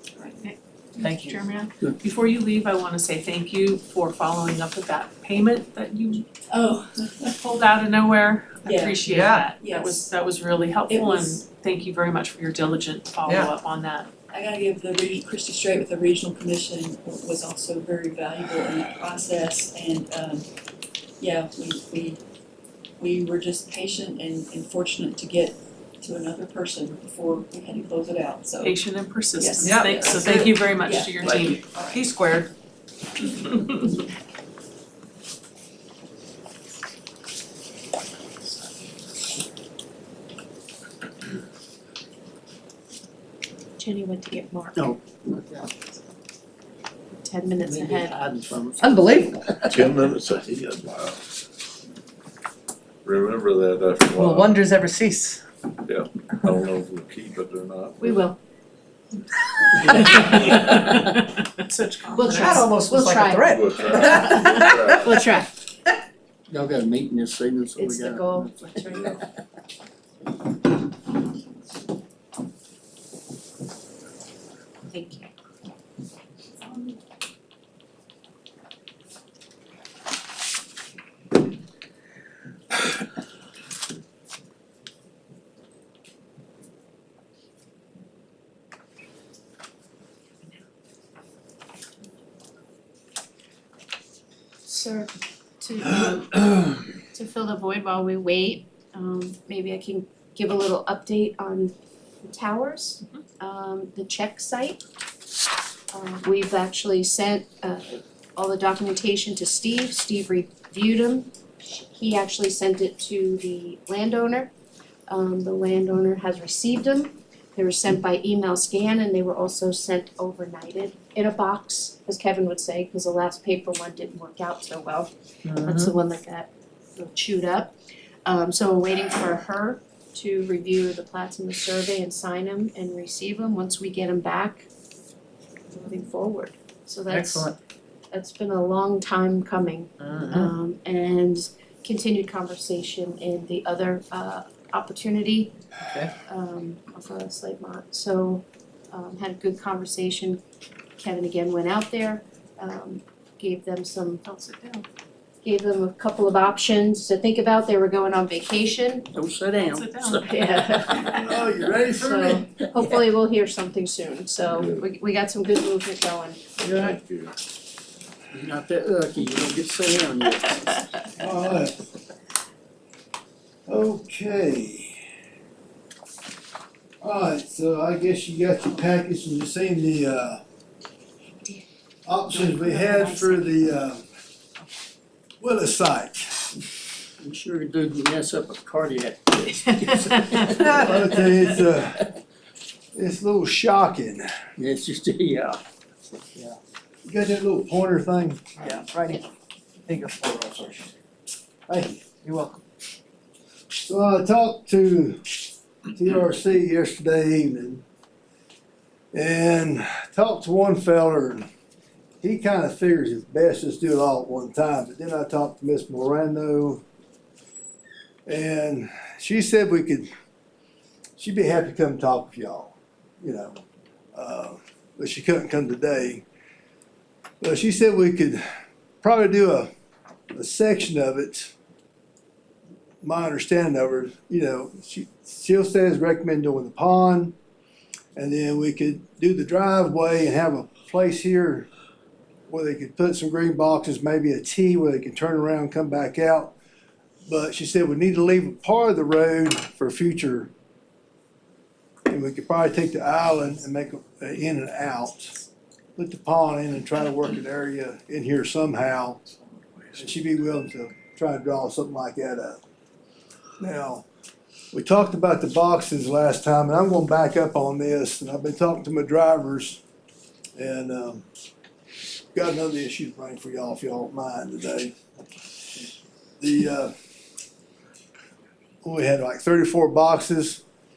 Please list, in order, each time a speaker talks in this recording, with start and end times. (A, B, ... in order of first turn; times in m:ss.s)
0:00.2-0:00.4 A
0:00.4-0:06.2 B
0:01.0-0:01.4 C
0:06.5-0:07.4 A
0:07.4-0:14.1 B
0:08.6-0:10.1 A
0:09.1-0:09.5 C
0:10.9-0:11.4 A
0:14.3-0:20.5 A
0:21.2-0:22.2 A
0:23.0-0:28.8 A
0:28.6-0:32.1 B
0:29.4-0:32.1 A
0:29.6-0:30.5 C
0:32.0-0:32.4 C
0:43.8-0:44.9 D
0:44.8-0:45.7 E
0:47.1-0:48.2 D
0:47.6-0:49.9 E
0:48.8-0:49.5 C
0:49.7-0:51.2 F
0:53.0-0:54.6 F
0:54.1-0:55.4 C
0:55.9-0:58.2 F
0:58.0-0:58.4 D
0:59.9-1:02.7 B
1:02.2-1:05.4 C
1:02.2-1:03.6 D
1:03.4-1:05.3 F
1:04.3-1:05.5 D
1:06.5-1:09.1 E
1:07.8-1:09.1 D
1:08.9-1:09.2 F
1:14.9-1:15.3 D
1:34.6-1:44.8 D
1:45.9-1:54.5 D
1:55.1-2:07.8 D
2:05.6-2:05.9 C
2:08.3-2:14.7 D
2:15.7-2:17.5 D
2:17.1-2:17.5 C
2:18.1-2:25.6 D
2:20.0-2:20.4 C
2:26.2-2:30.4 D
2:31.0-2:34.3 D
2:34.2-2:34.8 B
2:35.4-2:39.1 D
2:39.1-2:40.7 E
2:39.6-2:40.2 B
2:40.2-2:46.4 D
2:41.0-2:42.5 G
2:44.4-2:44.8 F
2:46.6-2:47.3 F
2:46.6-2:47.0 E
2:48.3-2:50.8 E
2:51.2-2:51.8 G
2:53.7-2:55.0 G
2:57.0-3:00.4 G
3:02.1-3:04.0 G
3:02.3-3:03.6 D
3:05.4-3:06.5 G
3:07.2-3:10.8 E
3:10.4-3:12.1 G
3:13.0-3:14.3 G
3:14.6-3:15.6 E
3:17.1-3:18.6 G
3:18.6-3:19.2 C
3:19.9-3:20.8 C
3:21.7-3:22.0 G
3:22.2-3:22.6 C
3:23.8-3:25.3 G
3:26.0-3:27.8 G
3:29.1-3:31.5 G
3:32.2-3:36.8 G
3:38.3-3:40.1 G
3:41.2-3:43.6 G
3:44.2-3:46.2 G
3:47.4-3:48.4 G
3:49.0-3:49.7 G
3:50.3-3:51.5 G
3:53.0-3:57.4 G
3:58.2-4:01.7 G
4:02.5-4:06.5 G
4:07.3-4:10.5 G
4:12.1-4:15.4 G
4:16.0-4:19.2 G
4:19.8-4:20.1 F
4:20.0-4:22.6 G
4:23.6-4:24.0 G
4:24.7-4:29.8 G
4:30.6-4:31.2 G
4:32.3-4:35.0 G
4:36.4-4:36.9 G
4:38.8-4:40.6 G